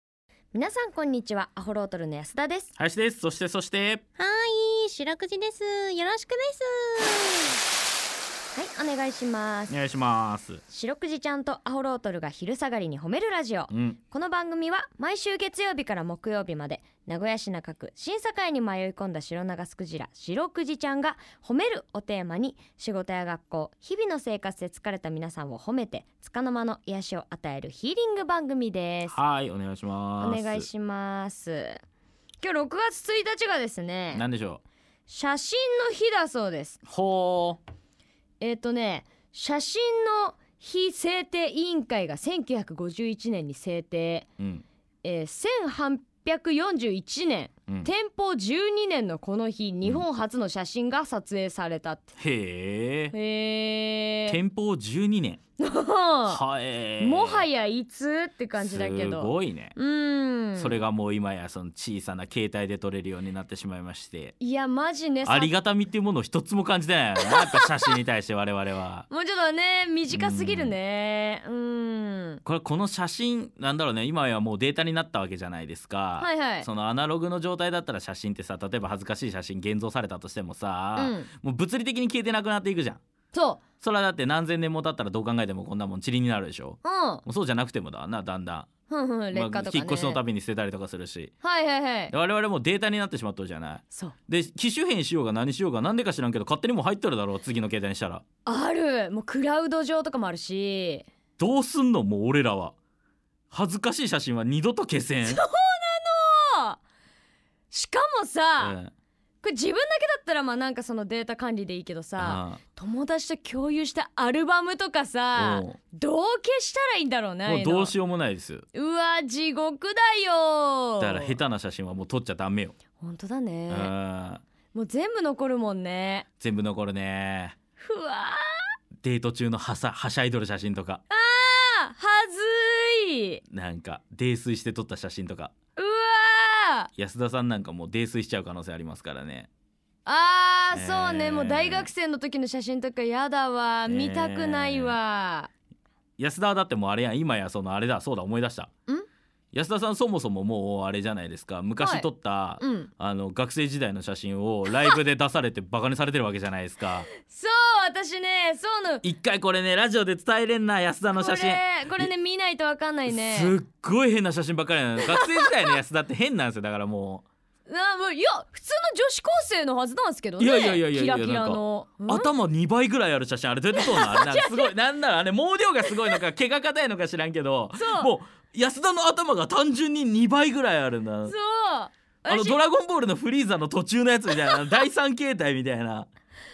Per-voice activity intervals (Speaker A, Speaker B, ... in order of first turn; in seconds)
Speaker A: 0.5-2.7, 8.5-9.7, 10.7-29.2, 30.2-31.8, 32.4-34.2, 35.1-36.8, 38.4-44.3, 45.0-52.1, 53.1-54.4, 55.6-56.4, 57.0-60.8, 64.4-65.5, 67.2-67.9, 69.1-72.4, 76.2-76.7, 81.0-81.3, 83.3-83.6, 86.8-87.2, 88.9-90.2, 91.4-92.1, 98.4-101.0, 105.2-106.8, 107.7-108.8, 109.4-117.9, 118.7-121.4, 123.0-123.9, 124.7-126.3, 127.8-128.7, 131.1-133.4, 135.8-136.9, 140.0-145.5, 151.8-152.1, 152.6-152.9, 157.2-159.0, 161.1-163.6, 165.1-165.6, 167.7-172.3, 173.7-174.7, 175.9-176.2, 177.8-178.1, 181.2-182.6
Speaker B: 2.8-4.0, 9.7-10.6, 13.7-14.0, 29.1-30.7, 34.1-34.6, 36.9-37.6, 44.4-44.6, 52.2-53.1, 54.3-55.4, 56.2-57.5, 58.6-59.8, 60.5-64.3, 65.2-69.1, 70.1-70.8, 72.4-83.0, 83.8-88.7, 89.3-91.3, 92.1-98.2, 101.4-102.7, 103.5-105.4, 108.6-108.9, 112.2-112.6, 115.3-115.8, 117.4-118.6, 121.0-122.7, 123.7-124.4, 126.4-127.5, 129.0-131.0, 133.5-135.5, 136.9-139.5, 140.7-141.9, 143.9-145.0, 146.2-148.7, 149.5-157.1, 159.0-162.1, 163.1-167.2, 170.4-181.3, 182.2-186.1
Speaker C: 4.2-7.5